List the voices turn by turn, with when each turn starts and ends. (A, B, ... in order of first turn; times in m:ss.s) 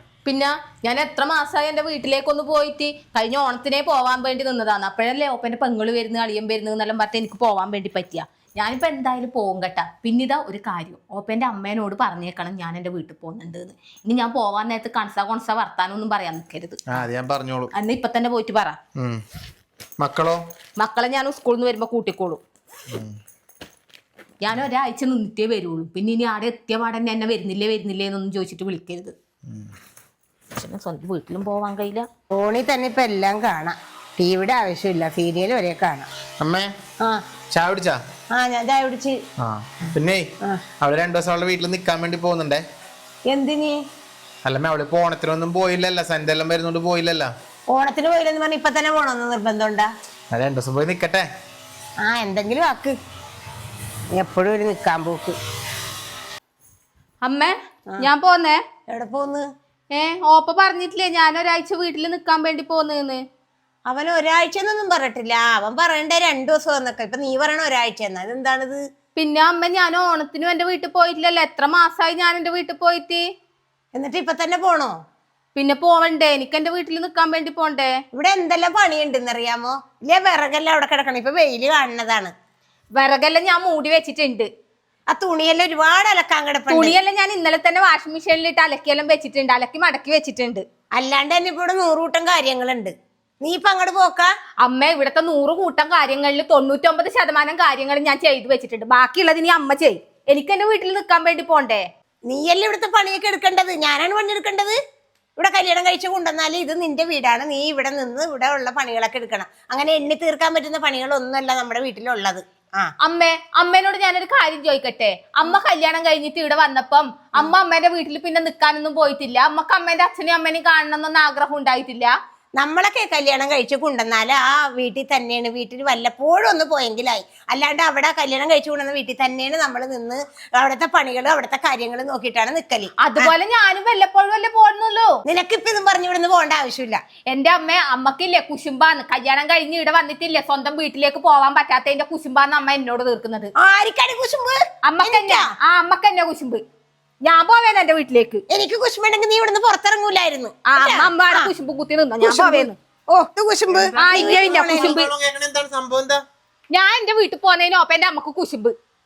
0:00.2-0:17.0 A
0:16.9-0:17.7 B
0:17.7-0:18.8 A
0:19.0-0:19.2 B
0:20.0-0:20.4 B
0:20.8-0:22.4 A
0:22.9-0:23.2 B
0:24.4-0:29.2 A
0:29.4-0:29.7 B
0:30.6-0:32.1 A
0:32.3-0:36.1 C
0:36.4-0:36.7 B
0:37.5-0:38.0 B
0:38.3-0:39.2 C
0:39.4-0:42.6 B
0:43.3-0:43.8 C
0:44.4-0:47.3 B
0:47.7-0:49.9 C
0:50.3-0:51.3 B
0:52.0-0:53.0 C
0:54.2-0:55.4 C
0:57.2-0:58.6 A
0:58.9-0:59.5 C
0:59.9-1:03.2 A
1:03.9-1:08.8 C
1:09.2-1:13.2 A
1:13.9-1:15.0 C
1:15.6-1:17.9 A
1:18.1-1:22.3 C
1:23.0-1:24.5 A
1:25.1-1:27.0 C
1:26.7-1:30.6 A
1:31.0-1:34.3 C
1:34.6-1:41.8 A
1:42.3-1:44.8 C
1:45.4-1:52.9 C
1:53.0-2:02.1 A
2:02.6-2:13.3 C
2:13.0-2:15.2 A
2:15.3-2:17.0 C
2:17.3-2:23.5 A
2:23.6-2:25.5 C
2:24.8-2:26.6 A
2:27.2-2:28.4 A
2:28.5-2:31.5 C
2:30.7-2:32.8 A
2:32.2-2:35.1 C
2:33.7-2:36.2 B
2:34.0-2:35.1 A
2:36.7-2:38.8 A